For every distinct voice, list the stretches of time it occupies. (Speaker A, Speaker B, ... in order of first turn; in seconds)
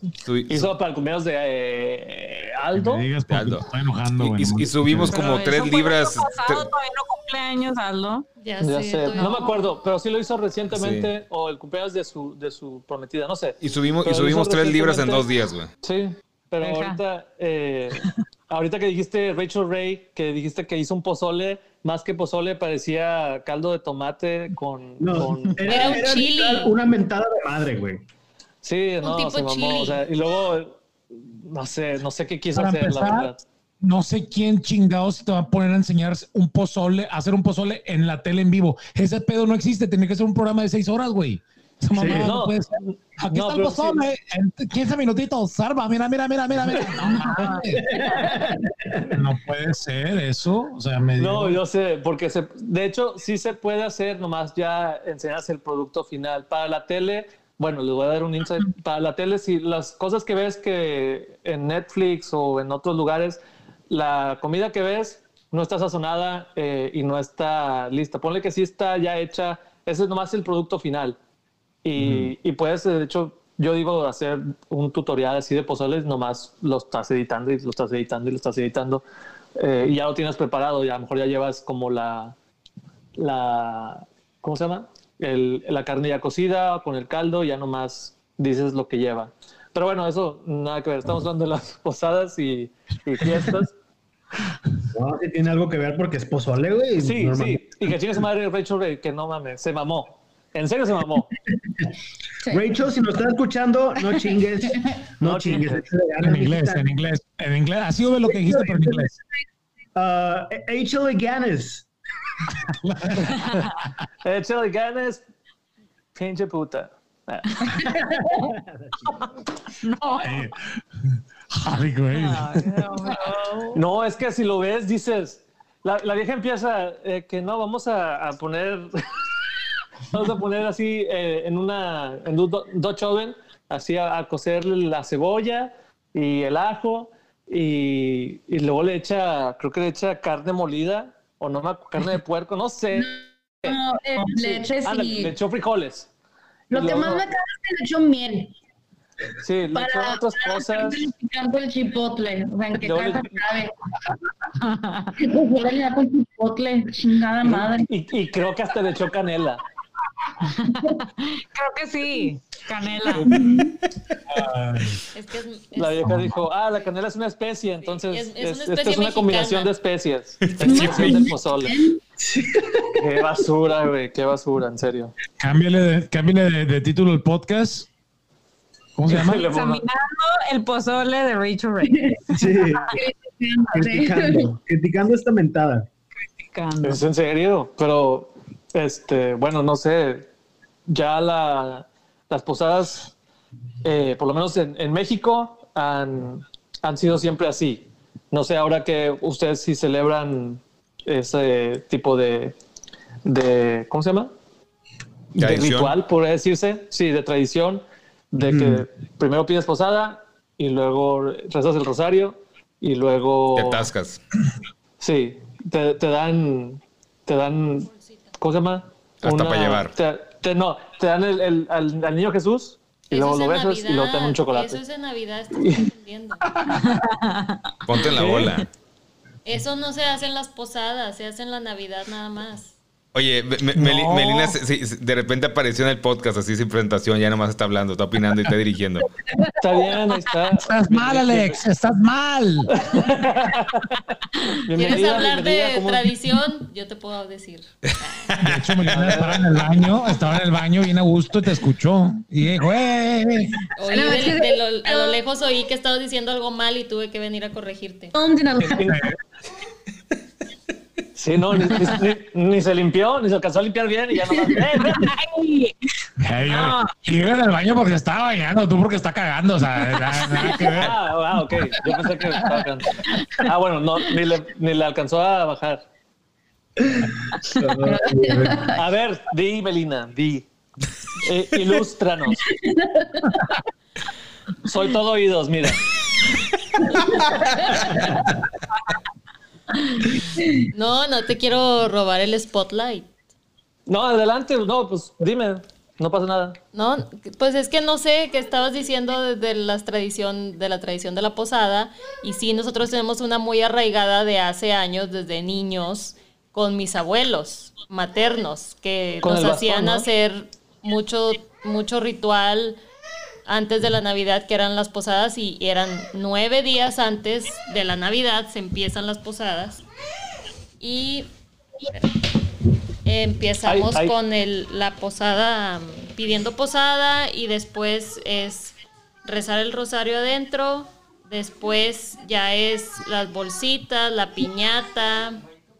Speaker A: 0.3-0.7, 3.3-3.6, 4.2-6.7, 10.7-11.1, 13.6-15.7, 170.4-171.3, 205.4-205.9, 213.5-214.2, 219.2-219.9, 227.8-228.7, 233.1-239.1, 248.3-249.6
Speaker B: 0.5-3.1, 8.6-15.2, 15.8-26.0, 28.6-33.4, 42.0-44.0, 46.7-47.6, 51.2-71.2, 71.8-79.0, 79.6-82.3, 83.2-93.7, 97.0-101.3, 105.2-105.9, 114.2-115.2, 116.1-118.0, 123.7-129.0, 130.1-146.1, 146.7-147.2, 149.4-151.1, 152.8-153.3, 157.4-159.6, 165.8-171.8, 173.0-175.1, 179.1-179.8, 186.8-190.3, 190.9-193.1, 193.8-202.6, 203.2-204.3, 205.3-213.9, 215.0-224.8, 225.6-225.9, 228.1-228.6, 239.6-241.6, 242.7-244.0, 244.7-246.1, 261.1-265.1, 270.5-275.8, 278.7-280.5, 281.2-282.4, 284.6-285.8, 293.9-296.6, 309.2-310.1, 323.6-324.1
Speaker C: 2.7-5.3, 32.5-48.1, 49.1-51.6, 106.2-109.1, 112.8-113.3, 120.2-120.6, 121.5-122.8, 164.3-165.0, 166.0-166.3, 175.4-177.9, 178.9-179.4, 233.7-234.6, 240.5-242.7, 248.4-253.5, 258.8-259.1, 266.2-271.0
Speaker D: 5.1-8.2, 9.1-9.6, 16.6-17.0, 119.8-120.4, 122.1-123.8, 154.6-155.2, 160.4-163.3, 179.4-182.6, 186.2-187.0, 226.8-227.7, 264.8-265.7, 266.5-266.9, 269.8-270.8
Speaker E: 8.4-9.4, 25.7-26.7, 29.0-30.0, 165.1-166.3, 167.8-169.7, 223.1-226.4, 229.4-232.7, 244.8-248.1, 253.8-258.1, 290.7-293.1, 296.7-312.8, 313.5-319.8, 320.8-321.3, 323.0-335.4
Speaker F: 25.0-28.0, 41.9-42.3, 47.8-49.1, 72.0-72.2, 94.9-98.0, 102.5-106.9, 108.2-109.2, 110.0-111.9, 118.3-119.1, 172.2-173.0, 182.3-183.0, 183.7-185.9, 208.4-208.8, 276.8-278.7
Speaker G: 117.9-118.3, 142.9-145.3, 146.7-148.5, 149.7-153.7, 155.2-157.9, 163.3-163.8, 170.6-172.0, 181.8-184.5, 253.8-255.2, 258.1-259.0, 277.8-278.8, 282.4-283.4, 286.9-288.1, 290.4-290.6